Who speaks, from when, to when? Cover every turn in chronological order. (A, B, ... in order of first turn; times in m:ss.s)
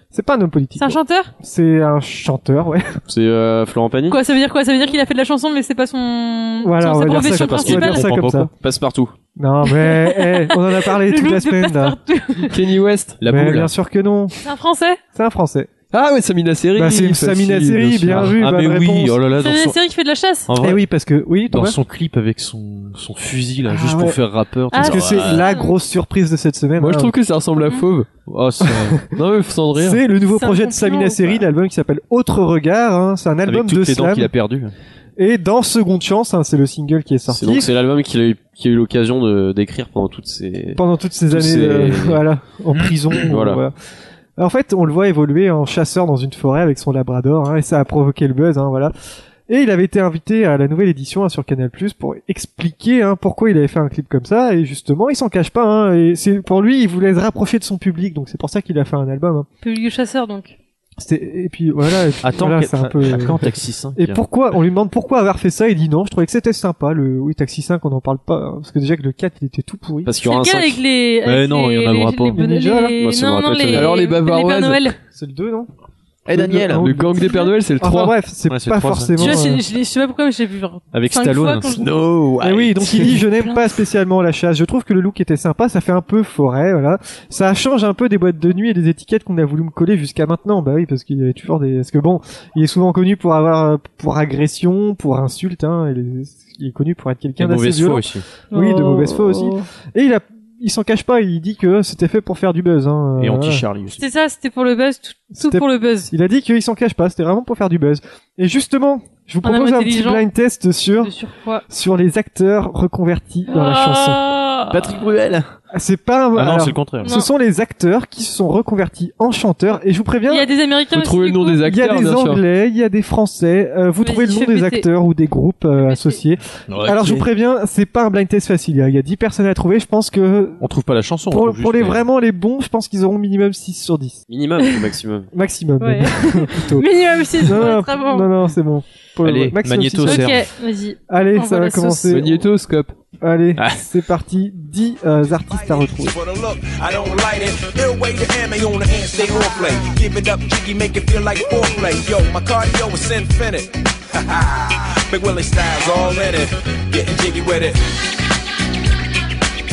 0:00.1-0:02.9 A
0:00.8-0:01.3 B
0:03.1-0:04.2 C
0:04.1-0:08.1 B
0:06.6-0:08.5 A
0:07.2-0:08.5 D
0:08.6-0:09.1 C
0:09.4-0:12.0 A
0:09.7-0:12.6 B
0:12.5-0:13.2 E
0:13.2-0:13.7 D
0:13.2-0:14.3 A
0:14.4-0:15.0 B
0:15.1-0:15.7 A
0:15.9-0:18.3 E
0:16.8-0:19.2 A
0:18.1-0:19.8 D
0:19.3-0:20.5 B
0:20.5-0:20.8 D
0:20.6-0:21.8 A
0:21.5-0:25.4 D
0:23.6-0:24.2 A
0:24.7-0:25.7 B
0:24.7-0:27.1 A
0:26.8-0:28.1 E
0:28.2-0:29.0 D
0:28.6-0:29.0 A
0:29.1-0:30.0 E
0:29.7-0:34.3 A
0:30.3-0:31.4 B
0:33.4-0:34.7 D
0:35.2-0:37.7 A
0:37.3-0:42.2 C
0:40.8-0:43.7 A
0:43.1-0:43.6 C
0:44.4-0:48.9 A
0:49.5-0:59.5 A
0:59.6-1:00.5 B
1:01.0-1:10.1 A
1:02.2-1:04.2 D
1:10.0-1:10.8 C
1:10.1-1:15.0 B
1:11.2-1:12.4 D
1:12.3-1:13.0 A
1:13.0-1:13.9 C
1:13.7-1:14.9 E
1:15.1-1:15.7 A
1:16.3-1:19.6 A
1:16.4-1:18.2 E
1:16.4-1:16.8 D
1:17.2-1:17.5 B
1:18.5-1:19.4 D
1:19.2-1:22.0 B
1:20.9-1:22.9 D
1:22.3-1:22.9 C
1:22.4-1:43.6 A
1:37.4-1:38.2 D
1:38.5-1:39.6 B
1:43.2-1:44.0 D
1:44.0-1:46.1 B
1:45.4-1:51.1 A
1:49.4-1:50.2 B
1:51.0-1:51.6 B
1:51.7-1:54.4 A
1:53.5-1:54.9 B
1:54.7-1:55.5 D
1:55.7-2:00.5 A
1:56.3-1:57.1 D
2:00.3-2:01.6 B
2:00.9-2:02.4 E
2:01.6-2:10.7 A
2:04.0-2:04.8 B
2:05.8-2:06.2 B
2:06.7-2:07.3 D
2:10.6-2:12.0 D
2:11.3-2:14.2 A
2:14.3-2:15.3 C
2:15.3-2:20.4 A
2:15.8-2:18.3 B
2:19.2-2:20.4 D
2:20.0-2:22.1 B
2:21.1-2:22.5 A
2:22.0-2:22.9 E
2:23.2-2:26.2 A
2:23.6-2:23.8 D
2:25.5-2:37.8 F